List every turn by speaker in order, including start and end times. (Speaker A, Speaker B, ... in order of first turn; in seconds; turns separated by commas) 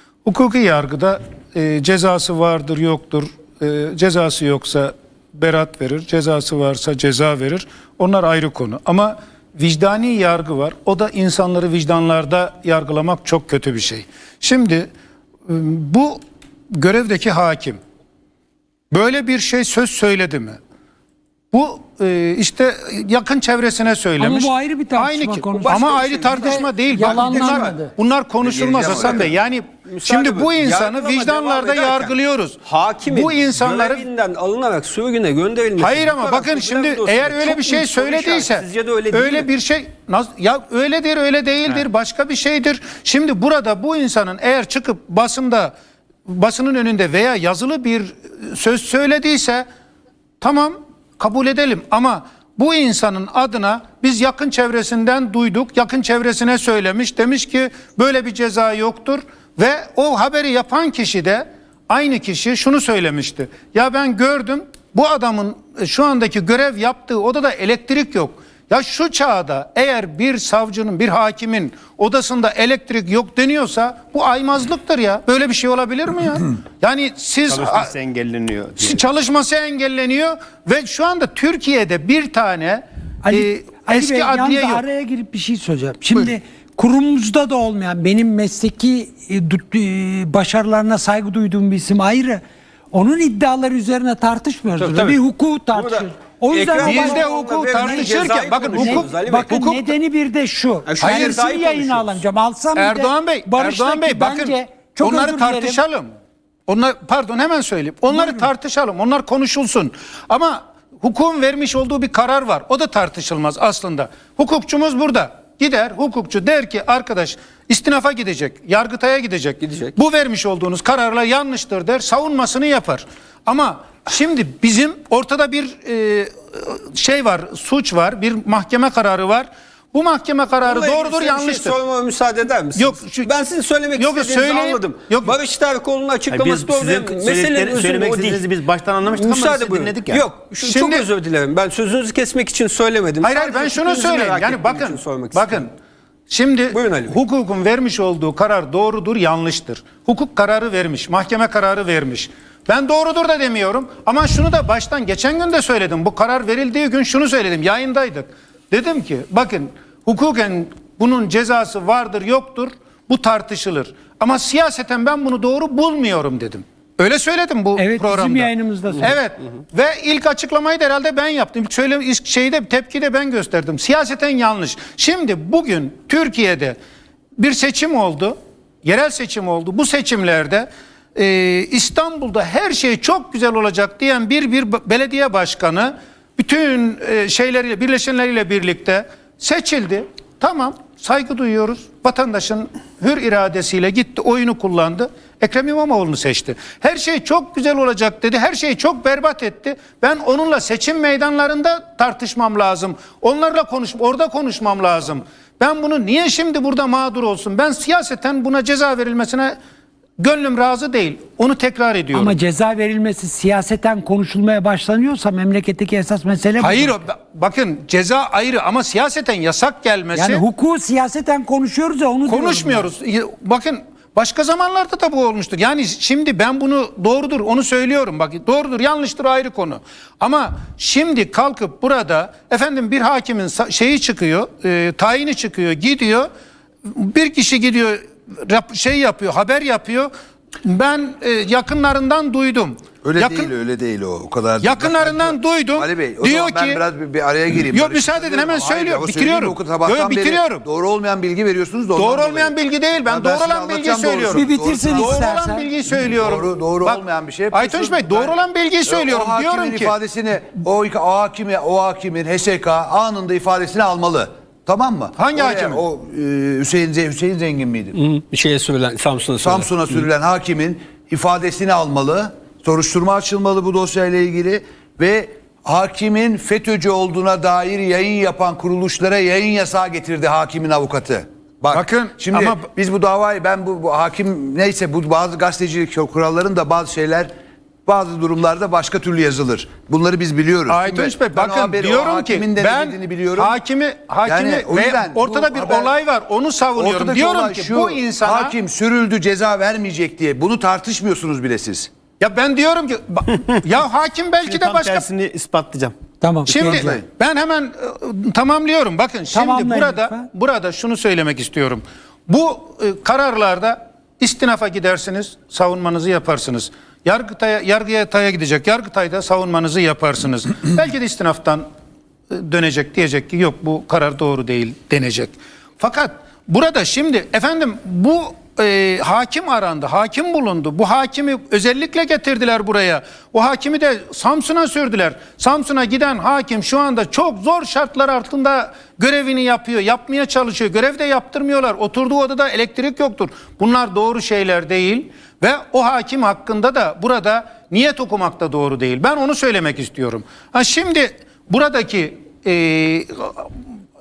Speaker A: 0.2-14.9, Speaker A: 15.5-17.8, Speaker A: 18.9-20.6, Speaker A: 21.5-34.0, Speaker B: 24.2-27.9, Speaker C: 25.6-27.8, Speaker D: 28.4-29.3, Speaker C: 28.9-29.3, Speaker C: 29.9-39.5, Speaker A: 35.8-45.7, Speaker A: 46.3-49.6, Speaker A: 50.4-77.9, Speaker E: 77.5-79.0, Speaker A: 78.8-84.8, Speaker B: 83.2-105.8, Speaker C: 94.8-99.6, Speaker A: 96.8-99.9, Speaker C: 100.9-102.2, Speaker A: 101.0-101.5, Speaker A: 102.8-106.1, Speaker A: 106.7-131.8, Speaker B: 108.1-108.5, Speaker C: 119.6-120.0, Speaker C: 130.6-138.4, Speaker A: 132.8-133.3, Speaker A: 134.0-135.4, Speaker E: 136.3-140.2, Speaker C: 139.1-145.7, Speaker A: 140.6-141.1, Speaker A: 143.2-145.7, Speaker A: 146.3-176.8, Speaker C: 146.7-147.2, Speaker B: 167.8-169.2, Speaker A: 177.4-209.6, Speaker A: 210.2-212.4, Speaker B: 212.1-217.0, Speaker A: 216.6-220.4, Speaker B: 220.1-222.9, Speaker A: 222.3-236.3, Speaker A: 236.9-240.1, Speaker A: 240.6-243.5, Speaker D: 243.0-255.3, Speaker A: 244.6-246.8, Speaker A: 247.7-250.6, Speaker A: 252.0-260.0, Speaker B: 254.3-255.7, Speaker D: 256.2-258.4, Speaker D: 258.9-268.0, Speaker A: 265.2-265.8, Speaker C: 267.9-270.0, Speaker D: 269.4-287.3, Speaker A: 281.7-282.7, Speaker D: 287.9-293.6, Speaker A: 290.7-298.6, Speaker D: 294.2-295.9, Speaker D: 296.8-301.9, Speaker A: 302.2-305.1, Speaker E: 304.4-305.9, Speaker B: 306.2-306.9, Speaker A: 306.5-321.6, Speaker D: 306.6-307.0, Speaker B: 309.3-310.3, Speaker A: 322.3-353.5